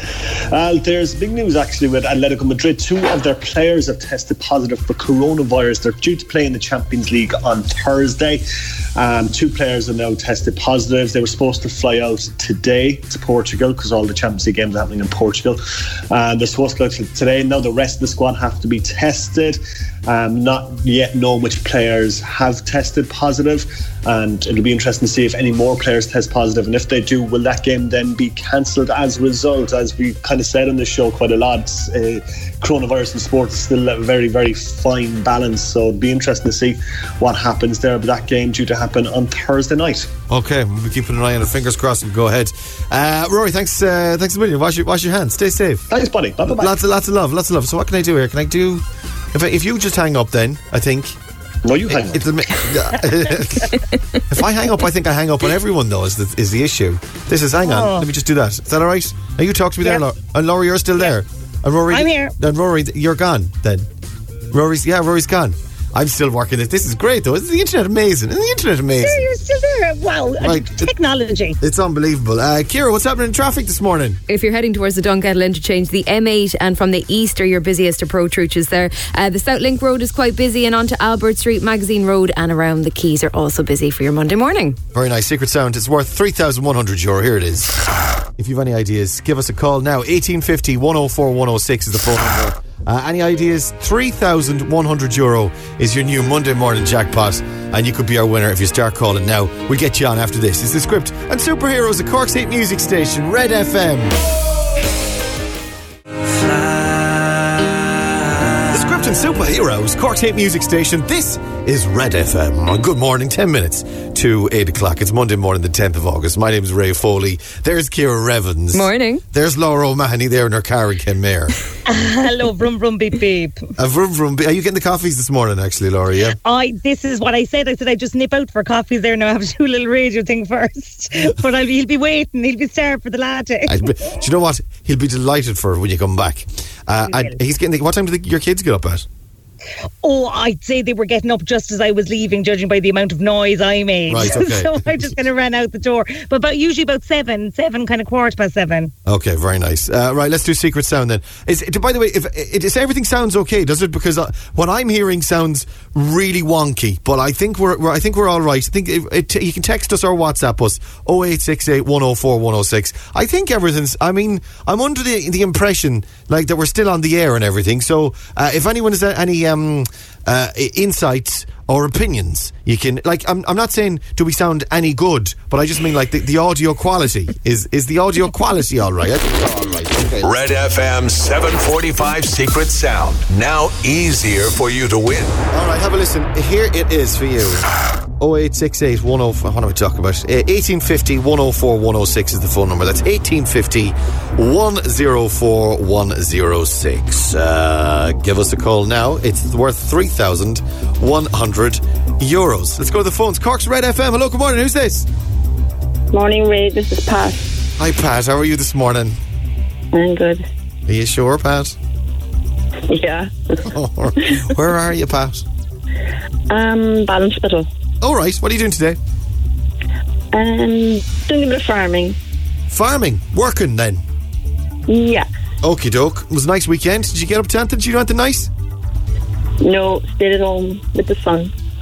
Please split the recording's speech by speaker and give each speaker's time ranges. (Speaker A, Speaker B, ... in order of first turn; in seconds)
Speaker A: 0.5-8.4, 9.0-15.6, 16.1-40.1, 45.9-46.7, 51.6-52.2
Speaker B: 40.3-45.9, 46.5-51.2, 51.9-63.9, 64.5-69.2, 70.4-70.9, 71.6-74.2, 84.9-87.8, 88.4-104.2, 108.6-121.5, 123.8-126.4, 133.7-139.1, 144.1-145.1, 149.1-180.3, 185.5-187.7, 188.2-205.1, 207.8-209.2, 210.9-211.8, 213.7-215.5, 218.0-219.0, 222.7-224.0, 225.6-228.5
Speaker C: 57.6-58.1, 61.9-62.3, 69.0-71.6, 121.9-123.7, 126.5-133.9, 137.1-137.4, 140.0-148.9
Speaker D: 74.3-84.8, 118.7-119.2
Speaker E: 180.2-185.4
Speaker F: 206.1-207.4, 209.9-210.5, 212.9-213.6, 216.5-217.7, 220.3-222.2, 224.9-225.3, 229.6-231.5